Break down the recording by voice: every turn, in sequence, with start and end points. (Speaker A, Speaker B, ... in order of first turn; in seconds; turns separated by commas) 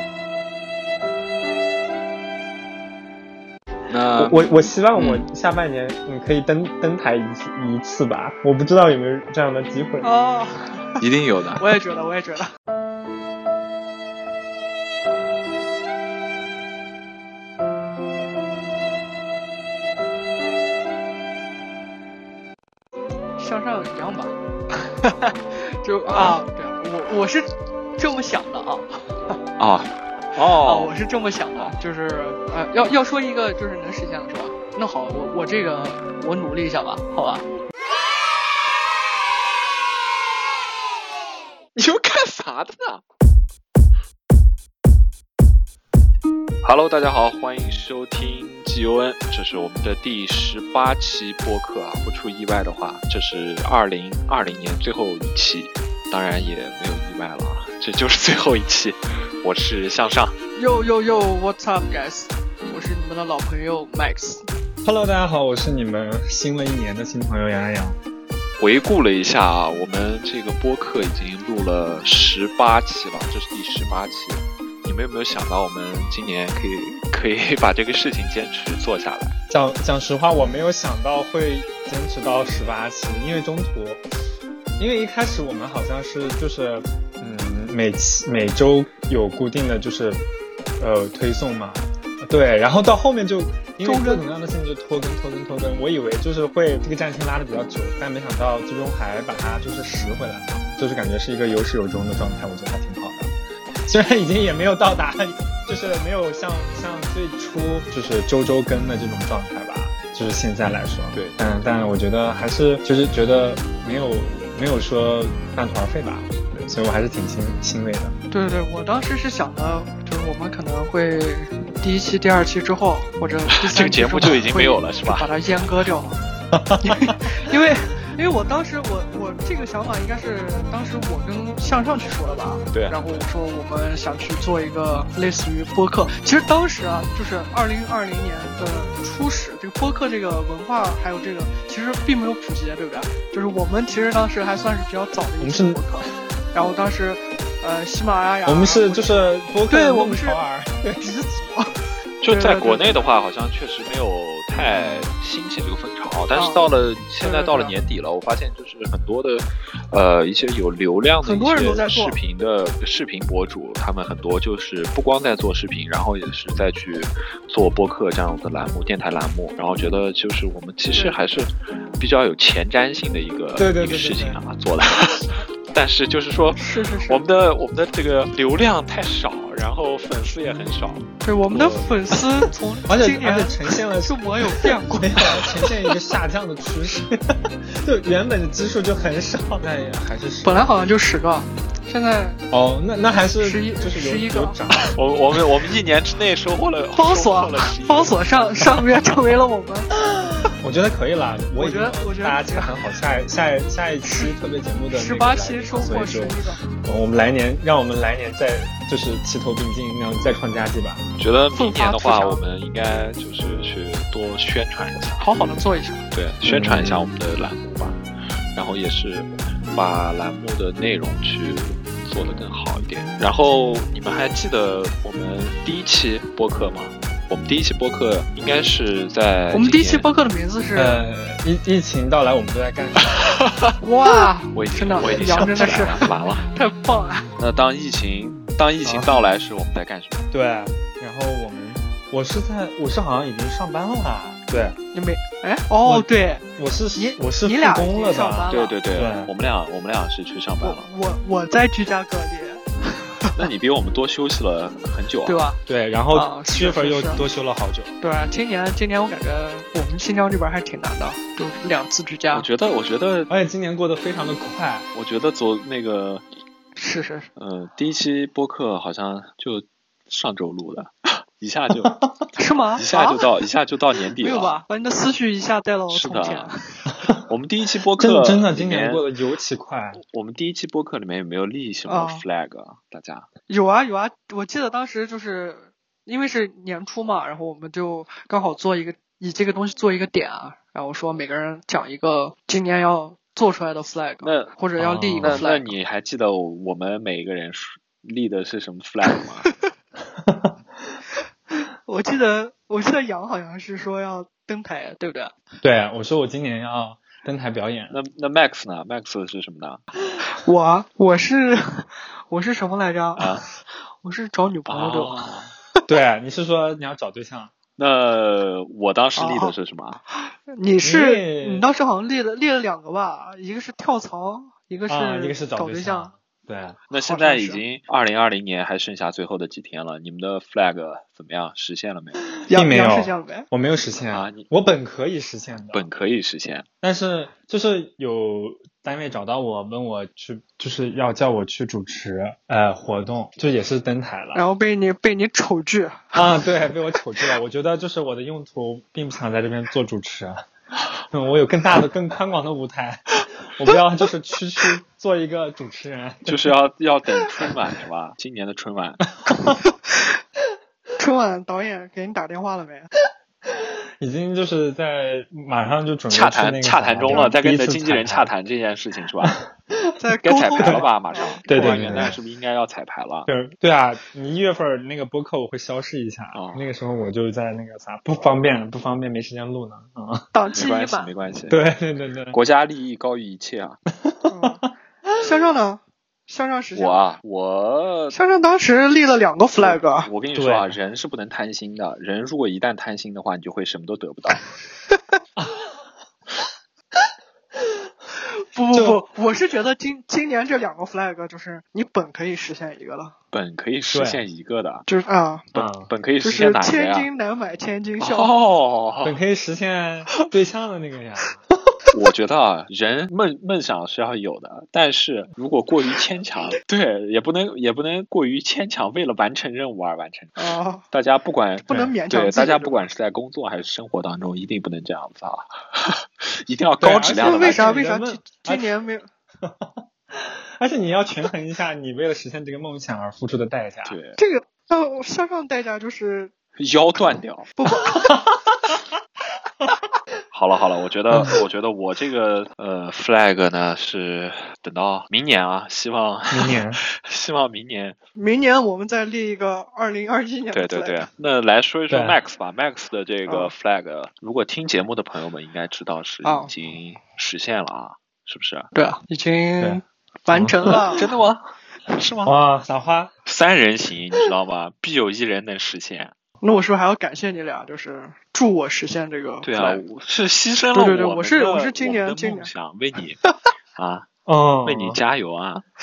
Speaker A: 3.9-4.4, Speaker B: 4.2-10.1, Speaker A: 4.9-5.3, Speaker C: 10.0-11.0, Speaker A: 11.0-11.8, Speaker C: 11.6-12.5, Speaker C: 23.4-29.4, Speaker A: 26.1-26.4, Speaker A: 29.6-30.9, Speaker C: 30.5-37.5, Speaker A: 41.8-43.0, Speaker A: 46.6-60.4, Speaker C: 60.6-64.5, Speaker B: 64.8-68.0, Speaker A: 68.6-79.4, Speaker B: 79.5-84.0, Speaker B: 84.8-90.2, Speaker B: 90.8-103.3, Speaker C: 93.8-94.2, Speaker B: 103.9-118.1, Speaker A: 111.1-111.5, Speaker C: 118.3-126.2, Speaker A: 123.6-125.4, Speaker B: 126.5-127.3, Speaker C: 126.8-150.4, Speaker A: 132.7-133.0, Speaker B: 145.4-145.8, Speaker B: 148.5-151.1, Speaker C: 151.0-153.1, Speaker A: 152.2-181.9, Speaker B: 154.7-155.1, Speaker C: 156.3-156.7, Speaker C: 157.2-157.7, Speaker C: 161.2-162.2, Speaker C: 170.9-171.3, Speaker B: 173.6-174.4, Speaker C: 176.6-177.2, Speaker C: 181.2-185.7, Speaker B: 182.9-190.7, Speaker C: 190.4-192.4, Speaker B: 192.5-195.0, Speaker C: 193.4-194.6, Speaker A: 194.9-198.5, Speaker C: 196.9-199.9, Speaker B: 200.2-211.1, Speaker C: 201.6-202.7, Speaker C: 204.0-204.4, Speaker C: 204.9-206.6, Speaker A: 211.2-215.3, Speaker C: 211.5-212.4, Speaker C: 215.2-216.1, Speaker A: 216.1-218.0, Speaker B: 216.4-217.1, Speaker A: 218.5-230.1, Speaker C: 229.5-231.0, Speaker B: 230.8-233.4, Speaker A: 233.3-233.7, Speaker C: 233.8-237.3, Speaker A: 234.5-236.5, Speaker A: 237.4-240.3, Speaker B: 238.8-239.1, Speaker B: 240.3-244.8, Speaker C: 244.9-246.4, Speaker B: 245.8-249.3, Speaker C: 247.0-248.8, Speaker A: 248.5-250.9, Speaker C: 250.6-253.4, Speaker A: 253.4-255.4, Speaker C: 255.3-255.6, Speaker B: 255.7-257.9, Speaker C: 256.1-257.2, Speaker C: 258.0-262.5, Speaker A: 262.3-263.3, Speaker B: 263.3-264.9, Speaker A: 264.9-266.2, Speaker C: 266.8-267.3, Speaker A: 267.4-272.0, Speaker C: 272.4-273.2, Speaker A: 272.8-274.6, Speaker C: 274.2-276.9, Speaker A: 275.9-276.5, Speaker A: 277.3-279.0, Speaker B: 278.0-280.0, Speaker A: 280.0-283.3, Speaker C: 281.9-282.2, Speaker C: 283.5-295.7, Speaker A: 294.2-294.5, Speaker B: 294.8-295.4, Speaker A: 295.2-299.5, Speaker B: 300.2-301.0, Speaker C: 301.5-305.4, Speaker B: 305.6-308.0, Speaker A: 307.9-309.8, Speaker C: 310.2-315.3, Speaker A: 313.2-313.4, Speaker A: 314.7-315.5, Speaker B: 315.9-317.5, Speaker A: 317.8-320.0, Speaker C: 319.2-319.5, Speaker C: 320.1-326.1, Speaker B: 320.8-321.7, Speaker B: 324.9-326.8, Speaker A: 326.9-332.2, Speaker C: 326.9-327.6, Speaker C: 332.5-333.5, Speaker B: 332.5-335.9, Speaker A: 334.1-334.5, Speaker A: 335.7-336.7, Speaker B: 336.8-344.4, Speaker C: 344.3-346.2, Speaker B: 346.1-350.4, Speaker B: 351.1-356.6, Speaker A: 356.3-359.0, Speaker B: 359.2-359.6, Speaker C: 359.6-360.2, Speaker C: 361.0-362.9, Speaker B: 363.4-368.3, Speaker A: 366.1-369.4, Speaker C: 367.1-367.3, Speaker B: 369.2-369.8, Speaker C: 370.0-372.2, Speaker A: 370.2-373.3, Speaker B: 370.6-370.9, Speaker B: 371.5-372.1, Speaker B: 373.3-380.3, Speaker A: 376.3-376.7, Speaker C: 380.3-381.1, Speaker A: 380.6-381.6, Speaker B: 381.5-382.4, Speaker A: 382.3-383.8, Speaker B: 384.0-384.7, Speaker C: 384.3-384.6, Speaker C: 385.2-387.1, Speaker A: 386.8-388.1, Speaker C: 388.1-390.1, Speaker A: 389.6-394.4, Speaker B: 390.4-390.8, Speaker B: 395.4-395.7, Speaker C: 398.3-403.1, Speaker B: 398.7-399.0, Speaker A: 403.3-404.9, Speaker B: 403.9-404.2, Speaker C: 404.9-405.5, Speaker A: 405.5-407.1, Speaker B: 405.6-405.9, Speaker C: 406.2-408.3, Speaker A: 408.0-409.2, Speaker B: 409.0-411.5, Speaker A: 411.9-427.6, Speaker C: 420.4-420.9, Speaker C: 421.7-422.8, Speaker B: 426.8-428.7, Speaker C: 427.1-429.0, Speaker B: 429.4-434.0, Speaker A: 433.9-434.2, Speaker C: 434.2-436.3, Speaker A: 436.6-437.5, Speaker C: 437.6-438.1, Speaker B: 437.9-438.8, Speaker A: 440.3-448.0, Speaker B: 441.1-441.4, Speaker B: 446.3-446.8, Speaker C: 448.2-451.1, Speaker A: 450.5-458.7, Speaker B: 451.9-452.2, Speaker C: 453.3-453.5, Speaker C: 456.2-456.5, Speaker C: 458.7-461.0, Speaker B: 460.3-461.0, Speaker A: 460.7-462.4, Speaker B: 462.2-463.1, Speaker A: 463.3-466.1, Speaker C: 466.4-469.8, Speaker A: 469.4-473.2, Speaker C: 470.7-472.5, Speaker A: 473.8-474.1, Speaker B: 474.3-475.0, Speaker A: 474.6-475.6